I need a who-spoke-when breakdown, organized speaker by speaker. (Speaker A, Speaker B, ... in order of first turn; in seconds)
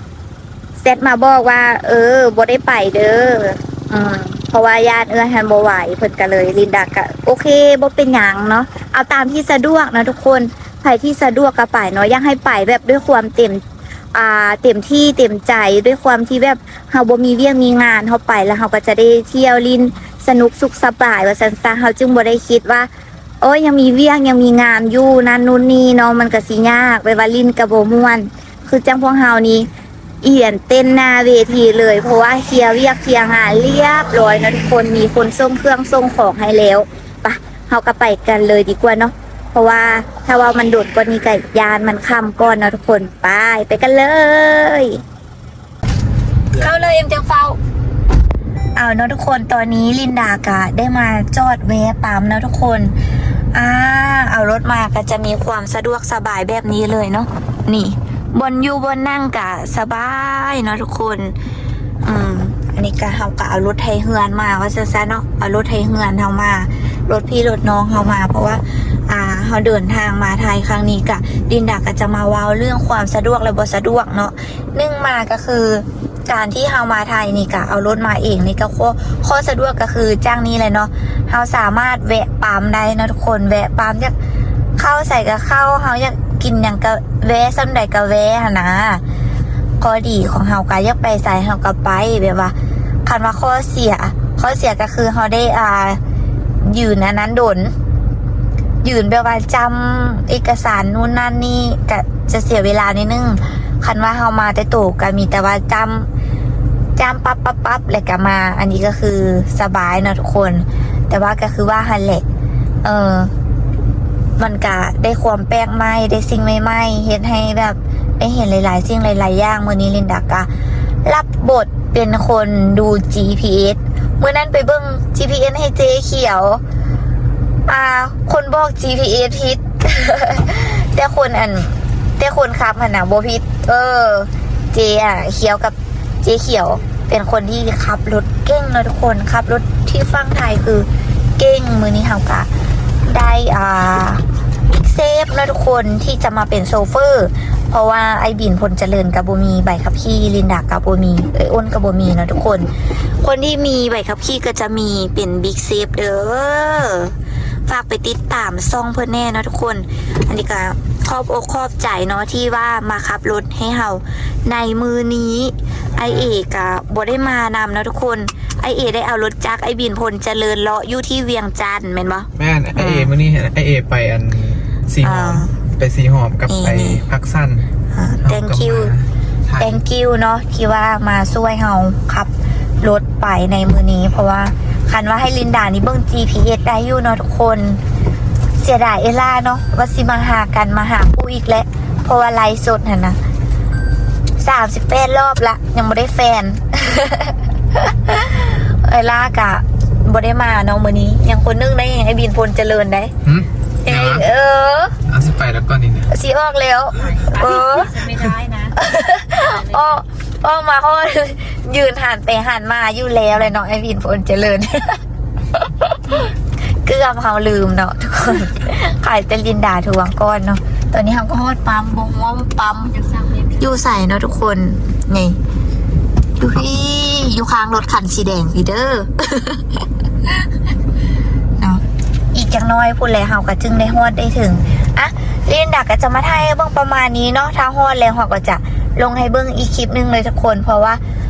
Speaker A: 0.8-13.6, 14.1-22.9, 23.4-29.7, 30.2-45.0, 46.5-47.6, 48.8-53.0, 53.5-61.4, 62.0-84.2, 84.8-89.0, 89.8-92.5, 93.0-96.0, 96.6-97.7, 98.8-106.1, 107.0-112.2, 112.8-113.3, 114.4-120.5, 121.0-126.6, 127.7-140.9, 141.4-142.5, 143.1-157.2, 157.7-173.1, 175.0-175.6, 176.5-177.0, 177.9-178.9, 179.6-182.3, 182.8-187.8, 188.6-193.2, 194.4-203.1, 203.8-205.0, 206.1-208.0, 208.8-215.0, 215.5-216.3, 216.8-222.9, 223.6-225.4, 226.4-229.8, 231.6-241.0
Speaker B: 172.4-177.7, 178.2-179.8, 203.3-204.3, 205.1-206.1
Speaker C: 207.0-208.8, 209.4-210.0, 222.9-223.7